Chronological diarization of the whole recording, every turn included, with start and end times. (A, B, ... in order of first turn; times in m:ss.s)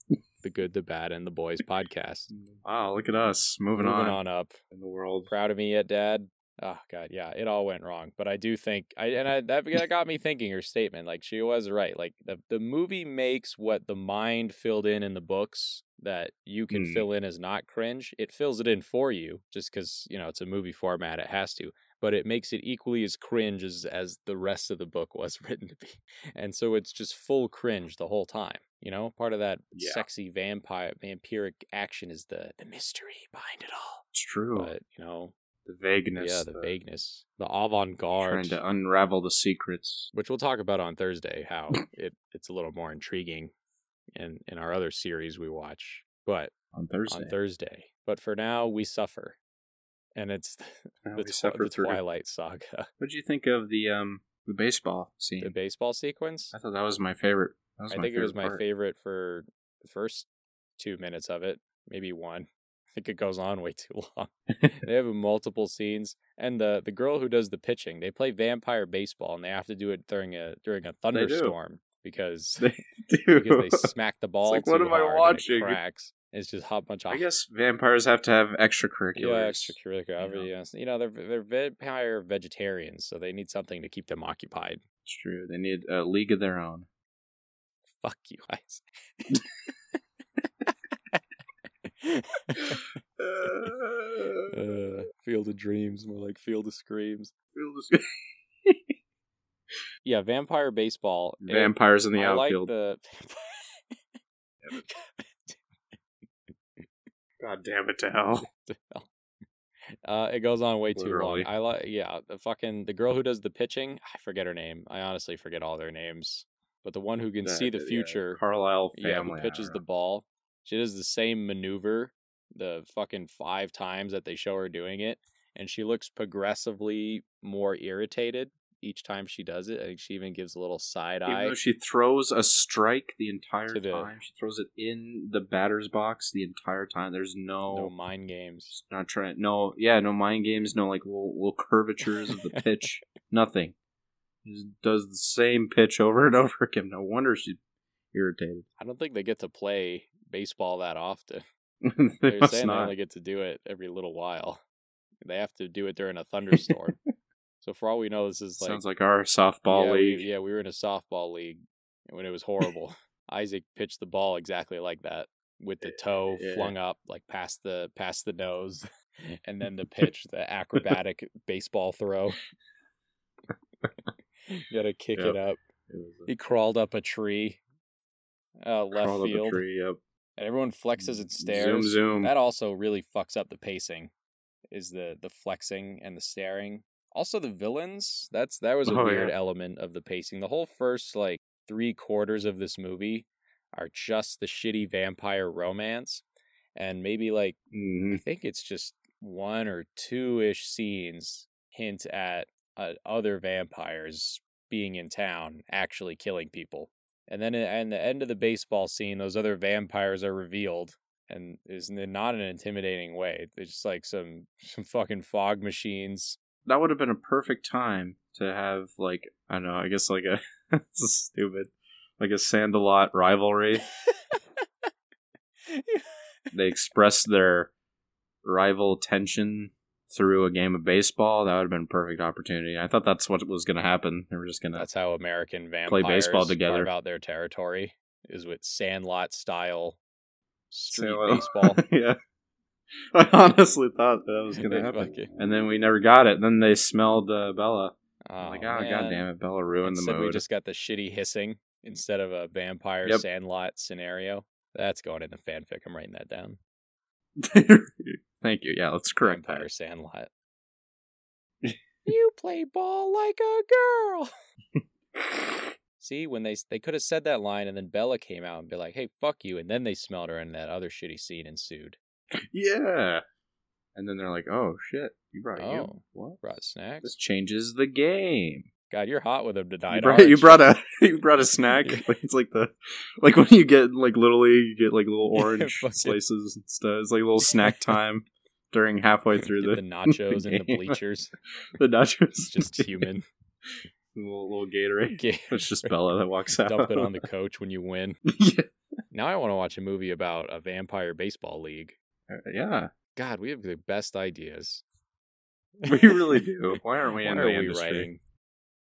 0:00.4-0:02.3 A
0:02.3-0:04.2 B
0:03.8-0:04.6 A
0:04.7-0:05.3 B
0:05.3-0:34.0 A
0:16.7-0:17.1 B
0:29.7-0:30.1 B
0:34.1-0:34.7 B
0:34.6-0:35.3 A
0:35.6-0:36.8 B
0:36.2-0:38.6 A
0:38.2-0:40.1 B
0:40.1-0:43.5 A
0:44.2-0:46.5 A
0:46.7-0:47.4 B
0:47.1-0:49.4 A
0:50.2-0:52.9 A
0:51.0-0:52.0 B
0:53.0-0:55.5 B
0:55.4-0:56.5 A
0:56.5-0:58.6 B
0:57.9-1:12.7 A
1:11.1-1:11.6 B
1:12.6-1:13.9 B
1:13.4-1:17.3 A
1:14.4-1:15.8 B
1:17.1-1:20.5 B
1:19.2-1:24.8 A
1:25.0-1:26.9 B
1:28.0-1:29.7 A
1:31.9-1:32.9 A
1:33.2-1:34.8 B
1:34.5-1:37.3 A
1:37.5-1:38.8 B
1:40.0-1:43.8 A
1:41.4-1:42.7 B
1:44.7-1:45.6 A
1:47.4-1:48.4 B
1:48.6-1:49.1 A
1:50.0-1:58.4 A
1:51.0-1:51.5 B
1:57.4-1:59.8 B
1:59.0-2:11.6 A
2:11.3-2:17.9 B
2:13.7-2:14.1 A
2:17.7-2:18.8 A
2:18.7-2:23.8 B
2:22.3-2:22.6 A
2:24.4-2:27.6 B
2:28.1-2:28.7 B
2:28.8-2:31.4 A
2:31.8-2:32.9 B
2:32.3-2:34.6 A
2:35.2-2:37.0 A
2:37.6-2:38.8 A
2:38.6-2:40.3 B
2:39.7-2:48.9 A
2:45.8-2:46.8 B
2:49.4-2:52.4 A
2:54.5-2:55.6 A
2:55.9-2:56.3 B
2:56.3-2:57.6 A
2:58.6-2:59.6 A
2:58.9-3:00.0 B
3:00.4-3:04.1 A
3:01.0-3:02.3 B
3:04.7-3:16.2 A
3:08.8-3:09.3 B
3:16.8-3:17.6 A
3:17.7-3:18.2 B
3:18.1-3:36.4 A
3:36.7-3:43.8 B
3:44.1-3:44.9 A
3:45.7-3:46.1 A
3:46.5-3:47.7 B
3:48.4-3:54.9 B
3:54.8-4:00.0 A
3:55.9-3:56.9 B
4:00.7-4:01.8 A
4:00.9-4:02.2 B
4:03.1-4:10.4 B
4:04.6-4:05.3 A
4:08.3-4:09.3 A
4:09.8-4:16.6 A
4:17.4-4:19.7 B
4:19.2-4:20.3 A
4:22.1-4:24.3 A
4:25.2-4:25.7 B
4:26.0-4:32.0 A
4:32.4-4:33.2 B
4:34.0-4:36.4 B
4:35.6-4:37.1 A
4:37.0-4:38.7 B
4:38.9-4:40.8 A
4:39.9-4:51.0 B
4:41.8-4:42.1 A
4:45.4-4:46.2 A
4:49.4-4:51.3 A
4:51.8-4:53.1 B
4:52.4-4:53.2 A
4:54.1-4:57.2 B
4:55.1-4:56.0 A
4:56.6-4:58.2 A
4:58.3-4:58.7 B
4:59.1-5:02.0 A
5:02.3-5:02.9 B
5:03.2-5:04.8 A
5:05.8-5:06.5 A
5:05.9-5:08.1 B
5:07.2-5:08.2 A